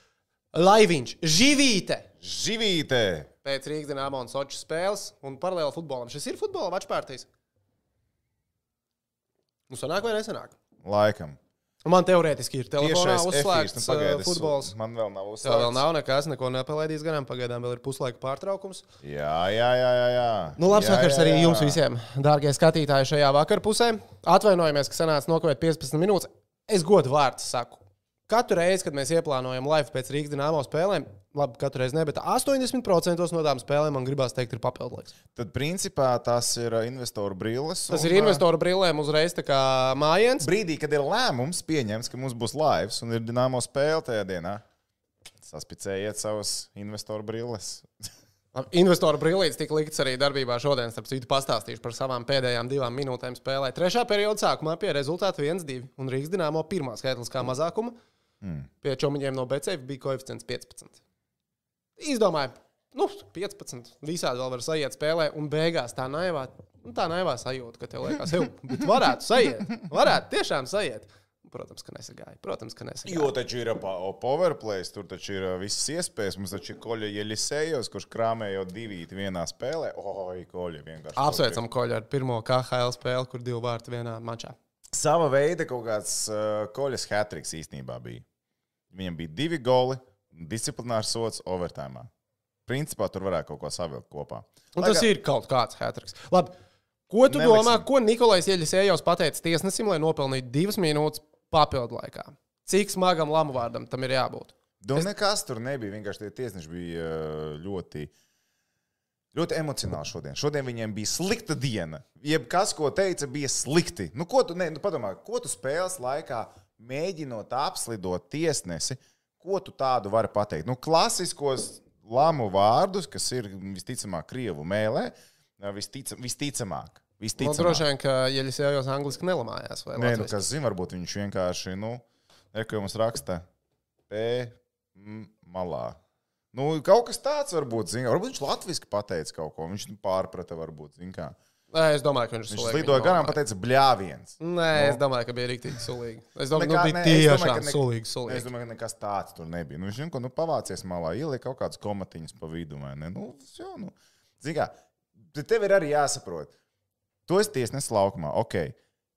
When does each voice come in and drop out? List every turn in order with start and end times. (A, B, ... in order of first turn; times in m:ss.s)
0:00.5-0:02.1 A
0:02.2-0:03.3 B
0:03.4-0:07.3 A
0:09.7-0:10.6 A
0:10.8-0:11.4 B
0:11.8-0:14.7 A
0:12.8-0:15.8 B
0:15.4-0:18.8 A
0:19.0-0:21.8 B
0:20.6-0:35.1 A
0:35.4-0:38.4 B
0:37.9-0:40.5 A
0:40.4-0:44.6 B
0:45.4-0:47.9 B
0:48.5-0:58.0 A
0:58.4-0:58.7 B
0:58.8-1:01.0 A
1:02.0-1:13.3 A
1:13.0-1:21.6 B
1:21.2-1:24.6 A
1:24.9-1:28.2 B
1:28.9-1:32.1 B
1:32.7-1:35.1 B
1:34.8-1:36.5 A
1:37.1-1:45.1 A
1:37.3-1:37.9 B
1:44.8-1:48.1 B
1:49.3-2:07.8 B
2:07.4-2:10.4 A
2:10.0-2:13.5 B
2:14.1-2:16.0 B
2:16.5-2:21.4 B
2:21.7-2:23.4 A
2:22.5-2:25.0 B
2:24.4-2:28.5 A
2:26.5-2:36.5 B
2:37.3-2:38.8 B